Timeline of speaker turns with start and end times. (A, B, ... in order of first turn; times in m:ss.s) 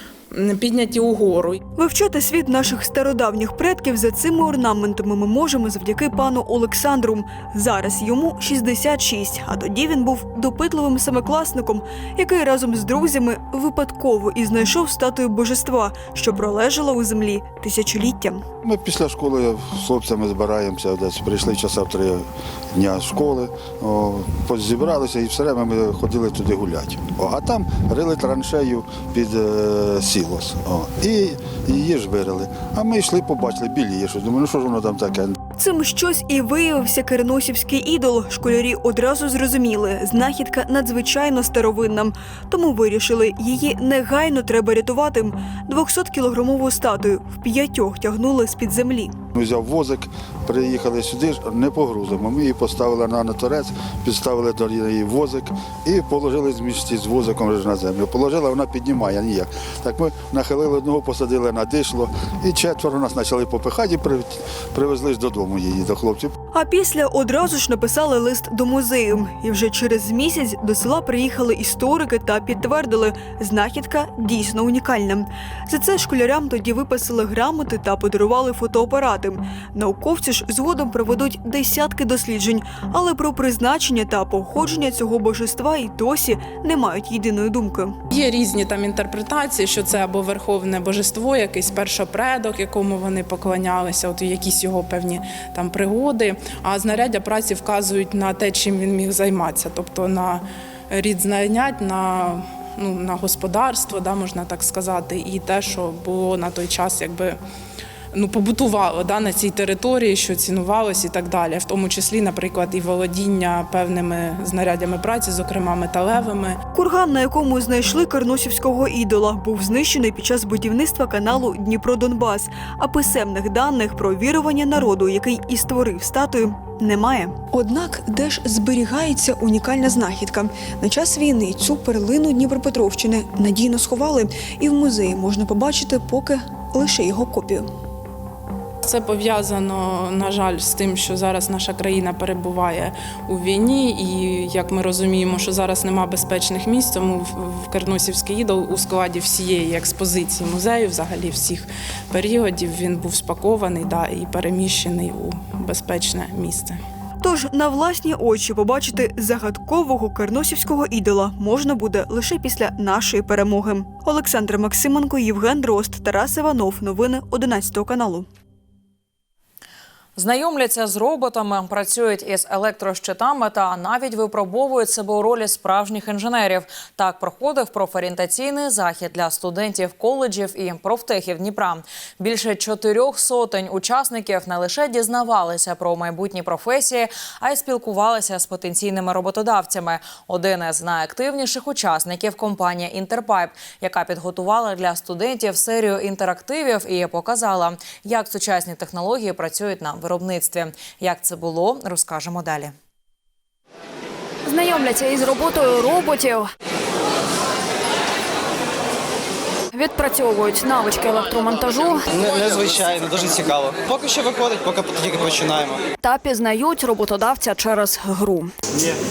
0:00.3-0:01.6 A
0:01.8-0:18.4 B
0:18.6-0:35.4 C
0:35.6-0:49.2 B
0:49.3-1:06.3 C
1:06.5-1:28.0 B
1:28.1-1:47.4 A
1:48.1-1:56.6 A
1:56.7-2:17.7 B
2:18.8-2:36.8 A
2:37.2-2:48.3 B
2:50.2-3:22.7 D
3:24.5-3:26.5 E
3:29.7-3:32.0 E
3:32.1-3:35.8 F
3:36.0-3:38.5 E